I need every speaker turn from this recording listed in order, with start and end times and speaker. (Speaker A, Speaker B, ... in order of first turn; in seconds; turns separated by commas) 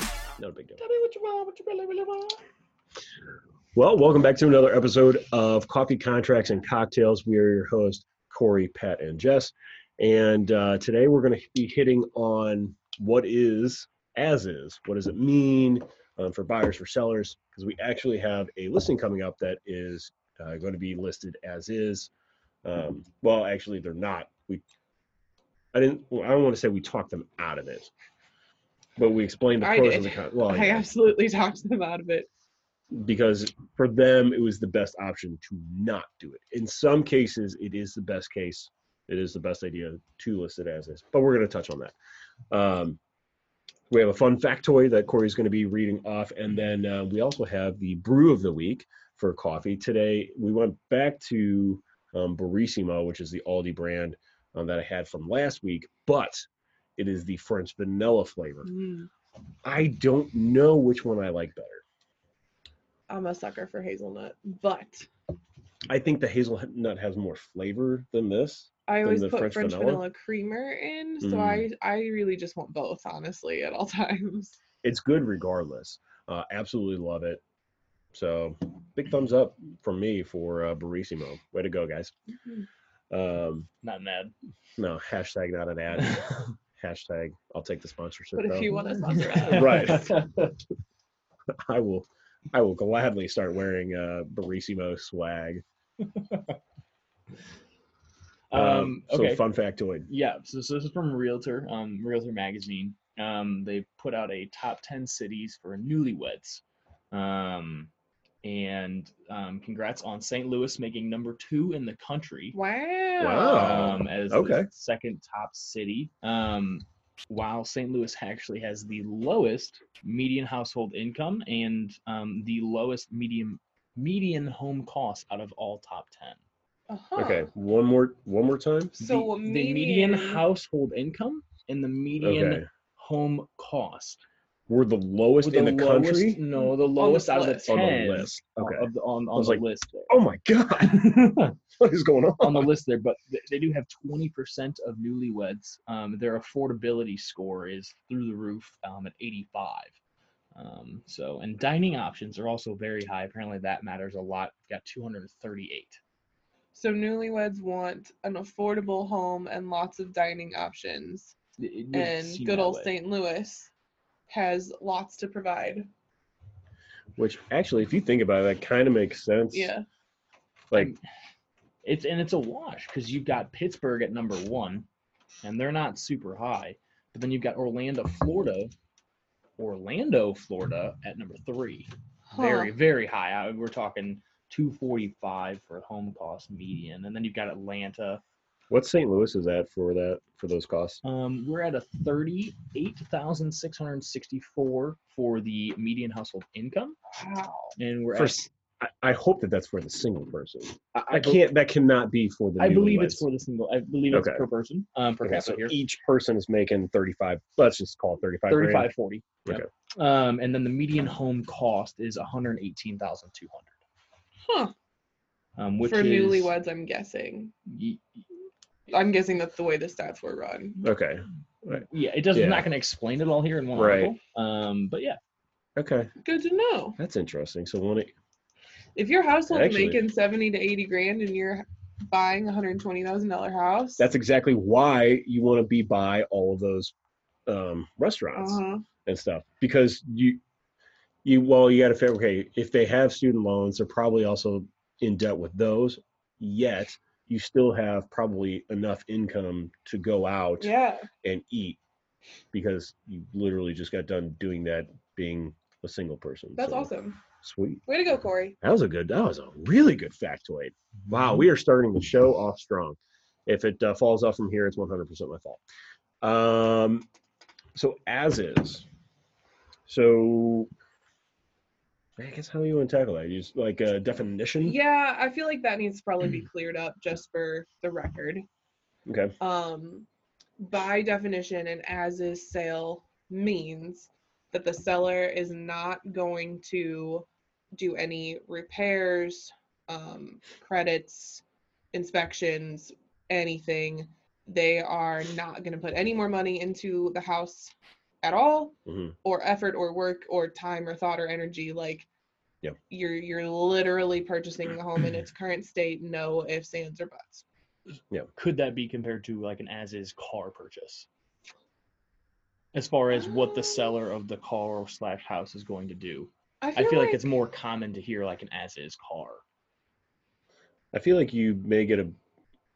Speaker A: 0.4-0.8, Speaker B: 1.1-1.9, Speaker A: 3.7-22.1, Speaker A: 22.6-24.6, Speaker A: 25.7-27.9, Speaker A: 29.0-30.9, Speaker B: 29.6-32.3, Speaker A: 32.9-41.9, Speaker A: 42.5-43.0, Speaker A: 43.9-58.7, Speaker B: 58.6-59.1, Speaker A: 59.6-61.8, Speaker B: 63.1-65.1, Speaker A: 65.9-70.0, Speaker B: 68.9-74.6, Speaker A: 71.2-71.7, Speaker A: 74.8-77.4, Speaker A: 78.1-82.1, Speaker A: 83.1-83.7, Speaker C: 83.8-84.3, Speaker A: 84.8-88.7, Speaker B: 88.3-90.1, Speaker C: 89.1-90.5, Speaker A: 89.5-90.3, Speaker A: 91.6-95.6, Speaker C: 96.0-96.5, Speaker C: 98.5-99.4, Speaker A: 98.5-100.1, Speaker C: 100.1-107.9, Speaker C: 108.4-112.5, Speaker B: 112.5-113.9, Speaker A: 113.2-114.7, Speaker C: 113.4-126.4, Speaker B: 126.9-127.5, Speaker A: 127.2-128.9, Speaker B: 128.9-130.4, Speaker C: 129.0-134.2, Speaker A: 132.2-132.7, Speaker A: 134.7-136.4, Speaker C: 135.4-140.1, Speaker B: 136.5-137.7, Speaker A: 137.7-142.7, Speaker C: 140.8-141.5, Speaker C: 142.4-150.0, Speaker C: 150.5-156.0, Speaker B: 156.7-161.3, Speaker C: 161.6-162.9, Speaker B: 161.9-163.7, Speaker B: 164.3-165.9, Speaker A: 167.2-169.7, Speaker B: 169.5-169.8, Speaker C: 170.7-171.0, Speaker C: 171.8-174.8, Speaker C: 175.4-178.7, Speaker C: 179.6-188.2, Speaker B: 182.3-182.7, Speaker A: 188.7-191.0, Speaker C: 191.0-197.0, Speaker B: 197.1-197.7, Speaker C: 197.8-198.5, Speaker A: 198.1-203.2, Speaker C: 201.1-201.4, Speaker C: 202.6-205.8, Speaker A: 204.1-204.4, Speaker A: 205.2-208.9, Speaker C: 208.5-213.8, Speaker B: 214.4-214.7, Speaker C: 215.6-216.5, Speaker B: 215.8-217.5, Speaker C: 217.7-218.2, Speaker B: 218.9-220.8, Speaker A: 220.8-222.7, Speaker C: 221.9-225.2, Speaker A: 223.7-224.1, Speaker A: 225.8-226.1, Speaker B: 226.2-227.0, Speaker A: 227.0-228.1, Speaker B: 228.9-234.0, Speaker A: 229.5-230.0, Speaker A: 234.0-236.9, Speaker A: 237.5-240.4, Speaker B: 238.3-238.8, Speaker A: 241.2-250.7, Speaker B: 250.6-251.1, Speaker A: 251.2-251.8, Speaker A: 252.5-256.9, Speaker B: 256.6-257.2, Speaker A: 257.4-257.8, Speaker B: 257.9-258.6, Speaker A: 258.6-265.6, Speaker A: 266.2-267.1, Speaker A: 267.7-268.9, Speaker A: 269.9-270.7, Speaker A: 272.2-274.8, Speaker B: 274.6-278.4, Speaker A: 279.1-279.3, Speaker B: 279.4-280.1, Speaker B: 280.6-302.1, Speaker A: 298.9-299.1, Speaker B: 302.9-307.4, Speaker C: 308.4-311.1, Speaker C: 312.7-319.4, Speaker B: 316.6-317.2, Speaker A: 320.9-322.1